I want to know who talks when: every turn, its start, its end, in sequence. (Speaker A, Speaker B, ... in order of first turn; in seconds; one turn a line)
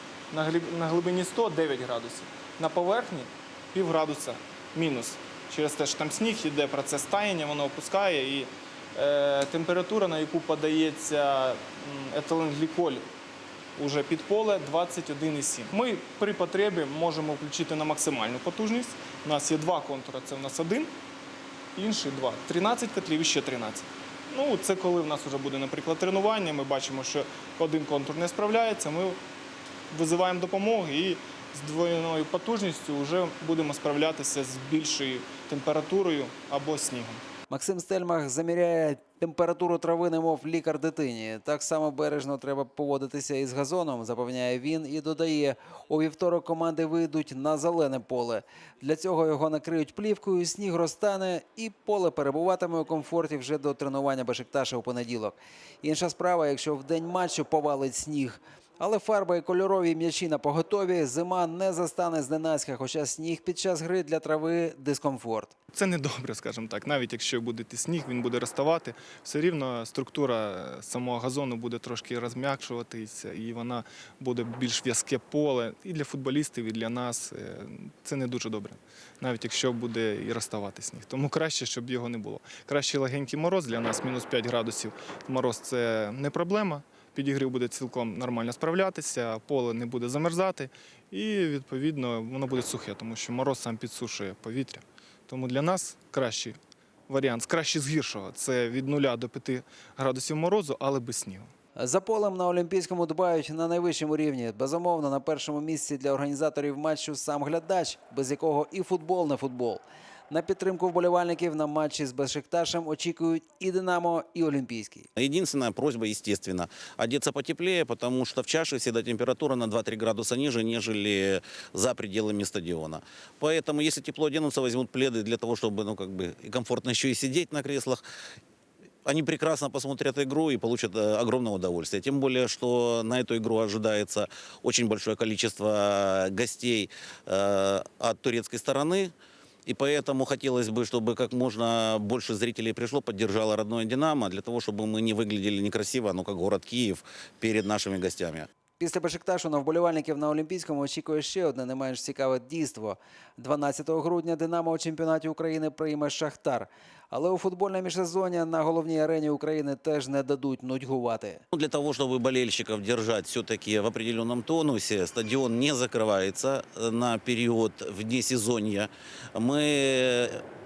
Speaker A: 0.3-13.1
Speaker A: 13.8-20.9
Speaker A: 21.8-29.2
Speaker A: 29.9-37.2
Speaker B: 37.5-65.5
Speaker A: 65.7-96.6
Speaker A: 97.1-101.5
Speaker B: 101.8-115.1
Speaker C: 115.2-128.0
Speaker C: 129.0-139.1
Speaker C: 139.7-148.5
Speaker B: 148.8-161.4
Speaker C: 161.5-170.4